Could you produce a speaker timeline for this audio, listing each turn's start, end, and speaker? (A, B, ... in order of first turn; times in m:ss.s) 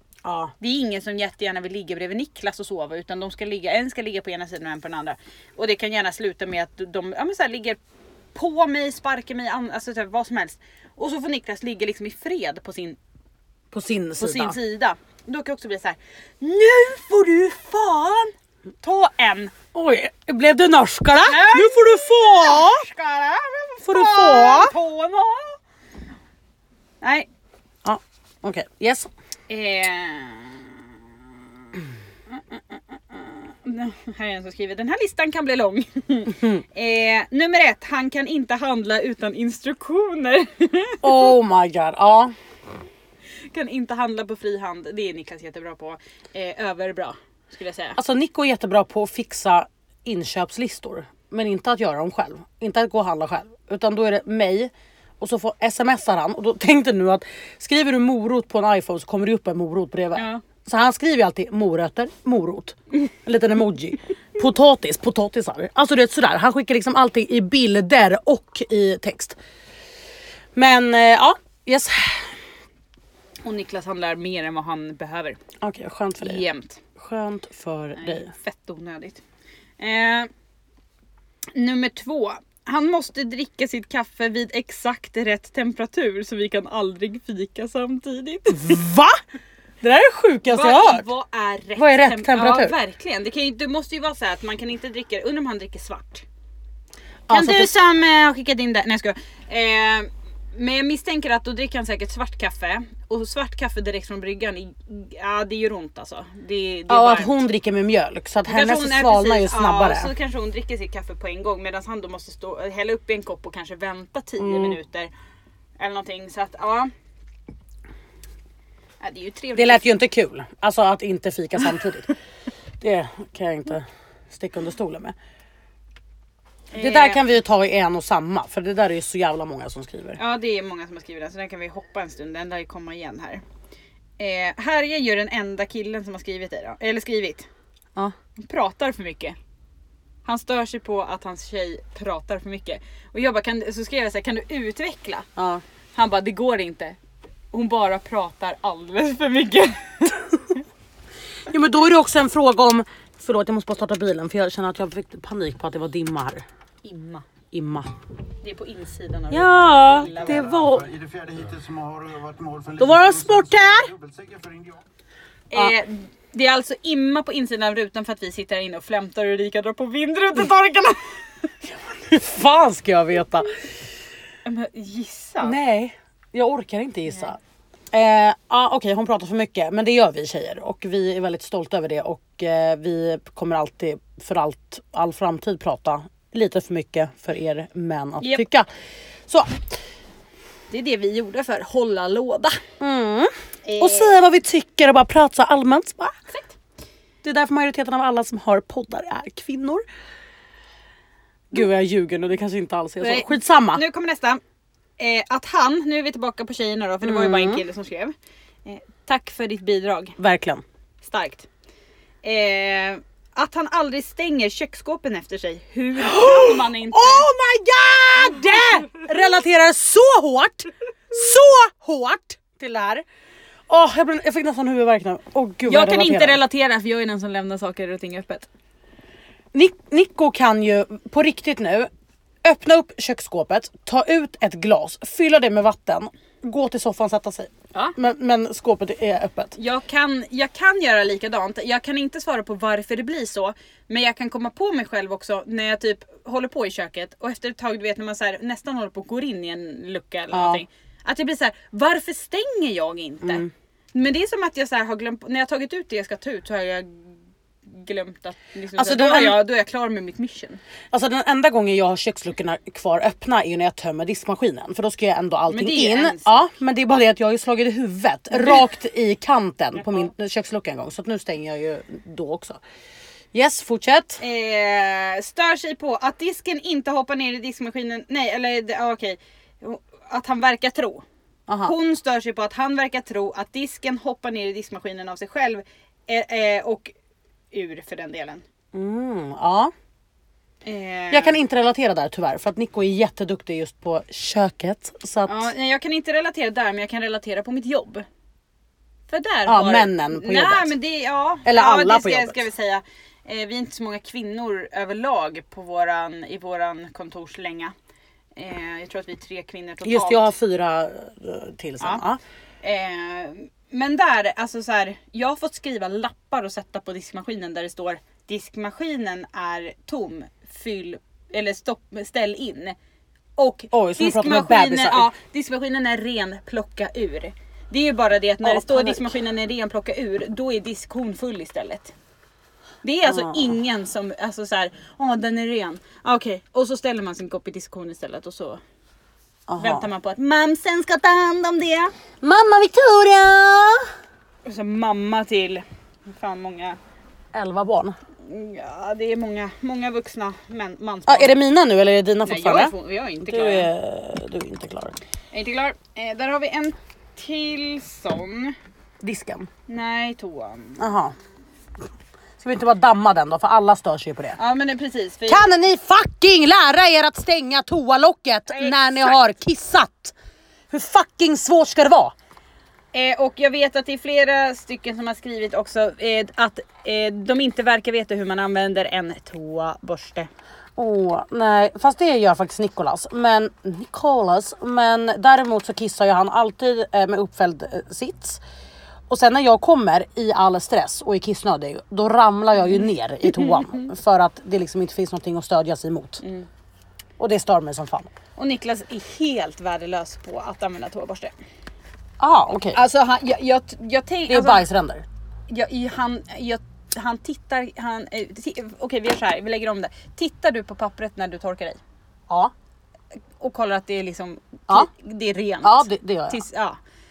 0:00.2-0:00.5 A
0:00.6-0:07.8 B
0:08.3-0:13.0 B
0:13.7-0:14.6 A
0:14.2-0:19.5 B
0:19.7-0:22.8 A
0:21.2-0:25.6 B
0:23.8-0:24.7 A
0:27.0-0:27.3 B
0:27.8-0:29.1 A
0:29.5-0:30.8 B
0:32.3-0:41.3 B
0:36.3-0:36.6 A
0:41.0-0:42.3 A
0:43.5-0:48.0 B
0:48.0-1:09.4 A
1:00.1-1:00.4 B
1:10.5-1:12.3 A
1:13.4-1:15.4 B
1:15.6-1:16.4 A
1:16.2-1:16.8 B
1:17.0-1:18.3 A
1:18.0-1:19.2 B
1:19.8-1:20.3 B
1:21.5-1:28.8 B
1:28.5-1:29.2 A
1:29.8-1:31.1 A
1:30.5-1:36.2 B
1:31.8-1:32.7 A
1:37.3-1:37.7 A
1:37.3-1:47.4 B
1:46.9-1:50.1 A
1:48.5-1:55.1 B
1:54.4-1:54.8 A
1:55.8-1:56.9 B
1:59.0-1:59.9 B
1:59.5-2:02.1 A
2:02.8-2:05.1 A
2:06.7-2:07.2 B
2:06.8-2:10.2 A
2:10.2-2:13.4 B
2:14.2-2:17.5 B
2:18.4-2:19.4 B
2:20.2-2:25.3 B
2:25.4-2:25.6 A
2:25.9-2:27.0 B
2:27.5-2:30.6 B
2:31.5-2:36.4 A
2:36.8-2:37.2 B
2:37.5-2:37.9 A
2:38.4-2:40.4 B
2:39.3-2:40.9 A
2:39.8-2:44.8 C
2:42.8-2:43.9 A
2:45.5-2:51.1 B
2:51.9-2:53.5 A
2:54.4-2:55.6 B
2:55.4-2:57.4 A
2:57.9-3:08.7 A
3:09.3-3:09.6 A
3:10.7-3:12.6 B
3:12.8-3:16.1 A
3:13.6-3:14.2 B
3:16.3-3:16.5 B
3:17.2-3:19.8 A
3:21.5-3:23.8 A
3:23.0-3:24.4 B
3:25.0-3:28.1 B
3:27.0-3:27.6 A
3:28.6-3:30.2 B
3:30.2-3:30.6 A
3:31.0-3:31.5 B
3:32.2-3:37.3 B
3:36.0-3:43.0 A
3:43.7-3:46.4 A
3:45.6-3:48.5 B
3:49.5-3:51.9 A
3:52.4-3:59.6 A
3:59.6-4:20.6 B
4:10.3-4:10.6 A
4:13.2-4:13.5 A
4:18.8-4:19.4 A
4:20.9-4:32.6 A
4:25.5-4:26.4 B
4:28.4-4:28.6 B
4:29.8-4:30.1 B
4:33.3-4:34.2 A
4:34.2-4:41.0 B
4:41.5-4:41.7 A
4:41.6-4:46.9 B
4:47.5-4:48.4 B
4:48.7-4:49.7 A
4:50.6-4:51.4 B
4:51.1-4:55.5 A
4:55.2-4:58.0 B
4:59.1-5:07.7 B
4:59.5-5:00.8 A
5:01.4-5:02.4 A
5:08.4-5:10.3 B
5:09.8-5:12.2 A
5:12.6-5:22.8 B
5:23.4-5:31.9 B
5:23.7-5:25.1 A
5:28.4-5:29.1 A
5:32.8-5:38.6 B
5:33.0-5:33.6 A
5:39.5-5:39.9 A
5:39.6-5:41.9 B
5:42.2-5:43.9 A
5:44.4-5:46.8 B
5:47.3-5:48.0 A
5:48.2-5:51.4 B
5:51.1-5:52.7 A
5:52.2-5:53.7 B
5:53.2-5:55.0 A
5:55.3-5:58.6 B
5:59.0-5:59.5 A
5:59.7-6:00.8 B
6:00.8-6:01.1 A
6:02.4-6:04.4 A
6:04.4-6:05.5 B
6:05.3-6:10.1 A
6:08.5-6:09.2 B
6:10.7-6:12.1 A
6:12.9-6:20.3 B
6:20.8-6:28.4 A
6:29.1-6:36.2 A
6:33.4-6:33.8 B
6:36.2-6:36.5 B
6:37.2-6:38.1 A
6:38.4-6:41.3 B
6:42.2-6:42.8 A
6:42.7-6:44.6 B
6:44.3-6:45.0 A
6:45.5-6:51.8 B
6:53.4-6:56.8 B
6:55.6-6:56.4 A